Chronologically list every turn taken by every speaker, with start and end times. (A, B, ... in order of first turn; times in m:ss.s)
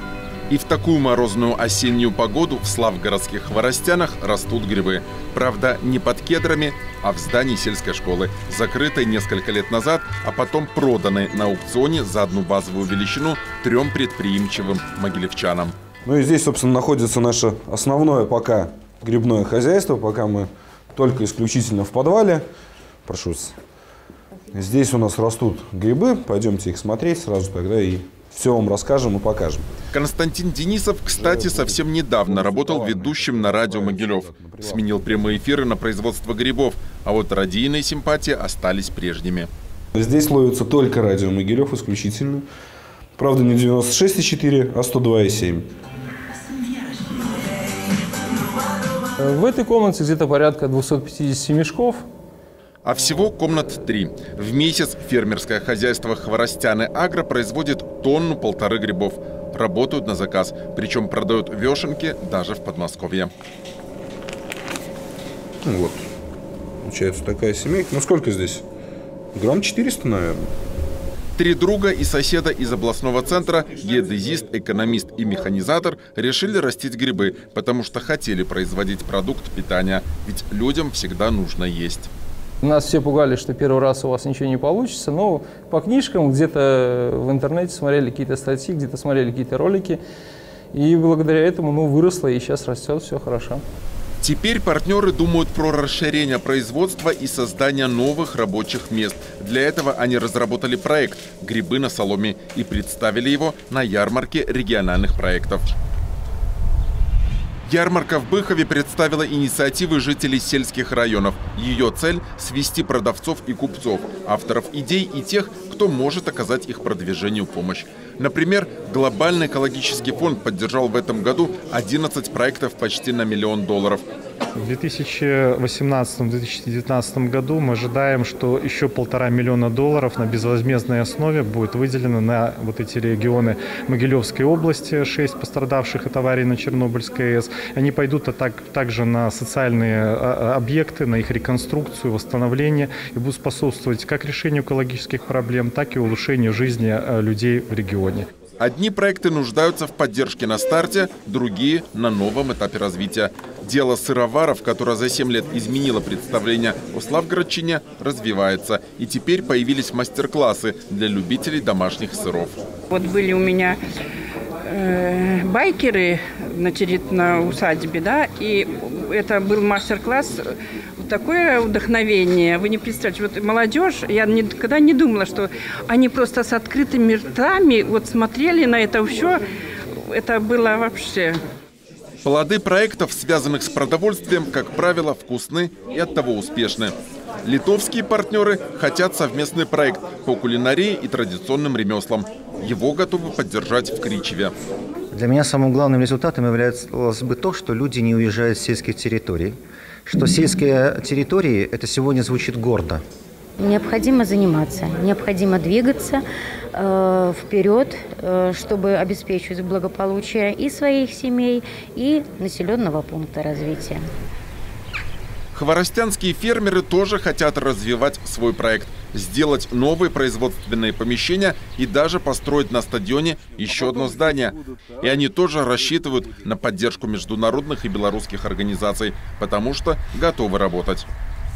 0:00.5-0:15.8 A
0:16.0-0:22.4 B
0:23.1-0:23.6 B
0:24.5-0:29.7 B
0:29.9-0:39.5 A
0:31.1-0:35.4 B
0:40.0-0:42.5 B
0:43.2-0:45.7 B
0:49.2-0:52.0 C
0:52.8-1:03.3 A
1:05.6-1:06.1 B
1:06.8-1:08.6 B
1:09.4-1:10.5 B
1:11.4-1:22.1 A
1:22.6-1:30.0 C
1:30.8-1:33.6 C
1:34.2-1:45.7 A
1:47.7-2:04.0 A
2:04.6-2:28.3 D
2:28.6-2:42.6 A
2:42.9-2:43.8 E
2:44.6-2:59.4 E
3:00.0-3:01.4 E
3:02.2-3:14.5 A
3:15.1-3:23.0 F
3:23.6-3:34.1 G
3:35.5-3:51.1 A